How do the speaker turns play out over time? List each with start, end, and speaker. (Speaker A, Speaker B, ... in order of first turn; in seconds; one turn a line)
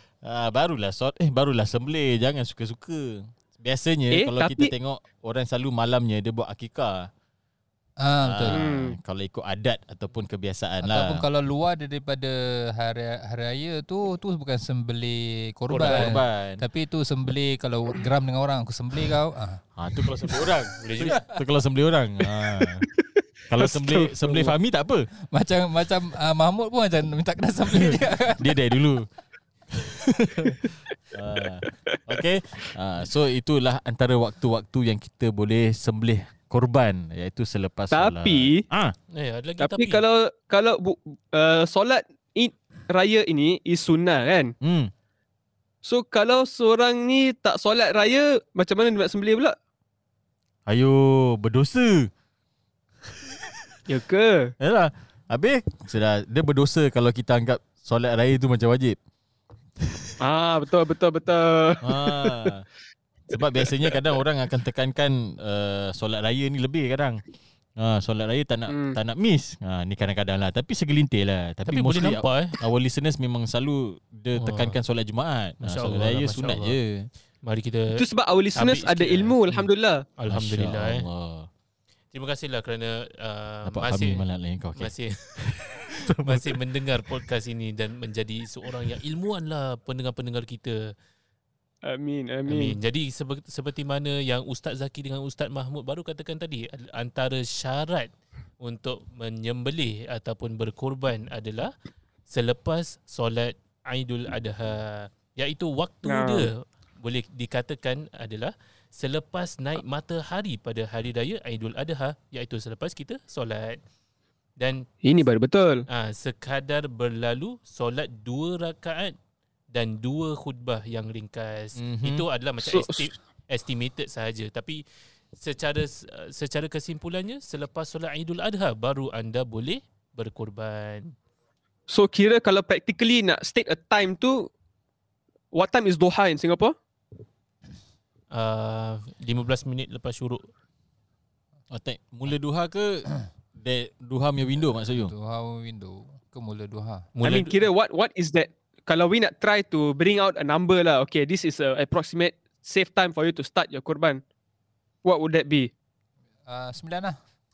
Speaker A: 0.2-7.1
Speaker B: 4.1-4.7
Speaker C: 8.0-8.7
Speaker A: 8.2-11.3
Speaker B: 8.5-9.0
Speaker C: 10.8-19.6
Speaker A: 15.7-16.6
Speaker A: 19.8-22.9
Speaker D: 20.8-21.2
Speaker B: 23.0-24.6
Speaker A: 23.5-25.1
Speaker C: 25.3-28.6
Speaker A: 27.7-29.1
Speaker A: 29.7-38.9
Speaker B: 37.9-38.6
Speaker D: 39.1-40.0
Speaker B: 39.6-44.5
Speaker A: 44.6-44.9
Speaker B: 45.8-49.6
Speaker A: 50.7-52.1
Speaker B: 53.9-54.5
Speaker A: 54.6-59.0
Speaker A: 59.8-60.1
Speaker B: 60.2-62.5
Speaker A: 61.8-62.6
Speaker A: 63.3-67.2
Speaker B: 63.3-64.0
Speaker A: 67.8-77.1
Speaker B: 68.7-69.0
Speaker D: 71.7-72.6
Speaker D: 74.4-74.8
Speaker D: 75.6-76.8
Speaker D: 77.4-78.0
Speaker B: 78.0-80.0
Speaker D: 78.5-81.1
Speaker A: 80.3-81.5
Speaker D: 82.1-84.2
Speaker A: 83.7-86.6
Speaker D: 84.8-85.4
Speaker D: 86.1-90.9
Speaker B: 91.8-92.8
Speaker D: 92.5-101.7
Speaker D: 102.3-113.8
Speaker B: 106.0-106.5
Speaker D: 114.6-114.9
Speaker B: 115.0-115.8
Speaker D: 115.9-119.2
Speaker D: 119.7-124.8
Speaker A: 121.8-122.2
Speaker B: 122.6-123.1
Speaker D: 125.3-131.2
Speaker B: 131.9-134.5
Speaker B: 135.5-136.8
Speaker D: 138.3-140.5
Speaker A: 141.7-145.1
Speaker C: 144.9-147.1
Speaker D: 147.2-147.6
Speaker B: 147.2-154.2
Speaker B: 155.0-155.7
Speaker C: 156.5-157.2